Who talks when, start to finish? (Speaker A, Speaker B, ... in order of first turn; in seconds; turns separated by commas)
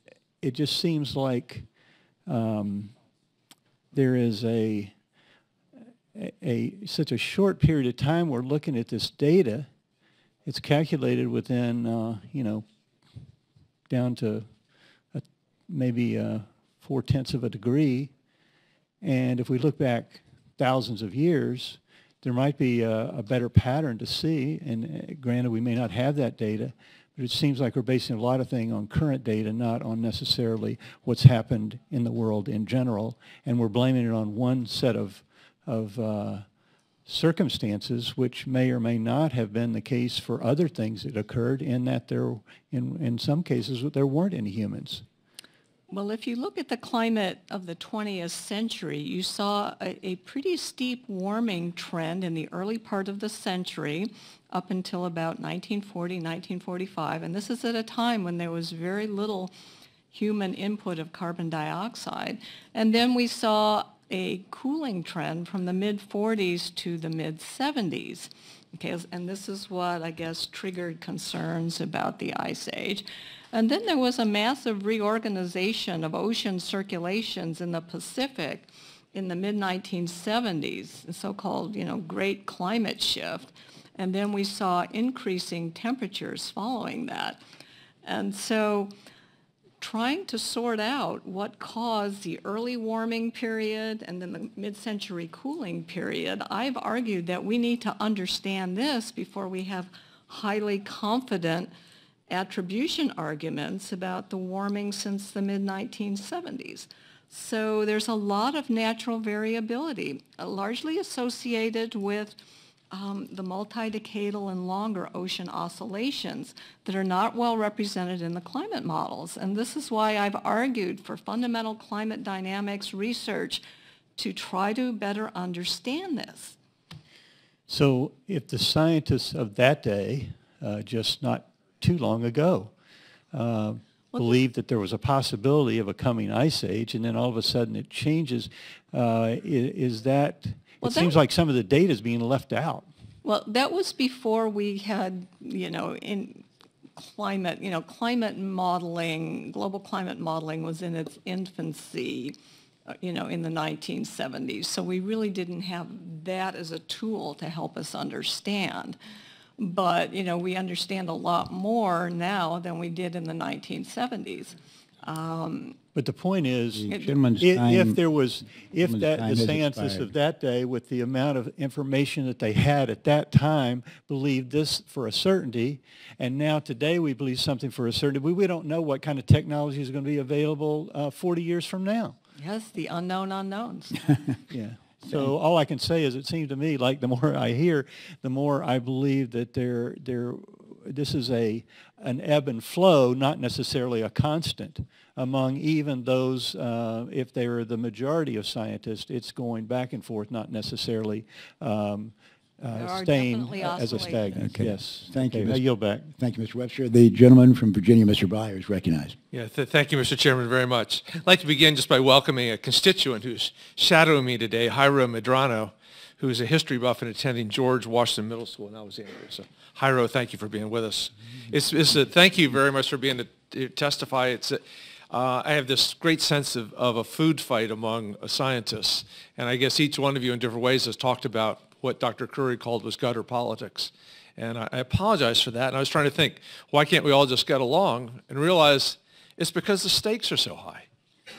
Speaker A: 0.4-1.7, Speaker A: 2.3-3.0, Speaker A: 3.9-4.9, Speaker A: 6.1-9.7, Speaker A: 10.4-12.6, Speaker A: 13.9-14.5, Speaker A: 15.1-18.1, Speaker A: 19.0-36.5, Speaker A: 37.0-45.0, Speaker B: 45.9-59.5, Speaker B: 60.1-87.4, Speaker B: 88.0-88.9, Speaker B: 89.8-101.7, Speaker B: 102.3-112.4, Speaker B: 112.9-123.6, Speaker B: 124.2-126.5, Speaker A: 127.7-132.7, Speaker A: 133.3-142.9, Speaker B: 134.1-134.4, Speaker B: 140.8-141.2, Speaker B: 143.2-146.4, Speaker B: 147.0-152.3, Speaker B: 152.9-159.0, Speaker B: 159.6-165.8, Speaker A: 165.9-182.2, Speaker C: 166.7-170.1, Speaker B: 166.9-167.1, Speaker B: 182.4-184.1, Speaker A: 184.5-206.1, Speaker B: 202.7-204.4, Speaker C: 204.3-209.2, Speaker D: 209.3-240.9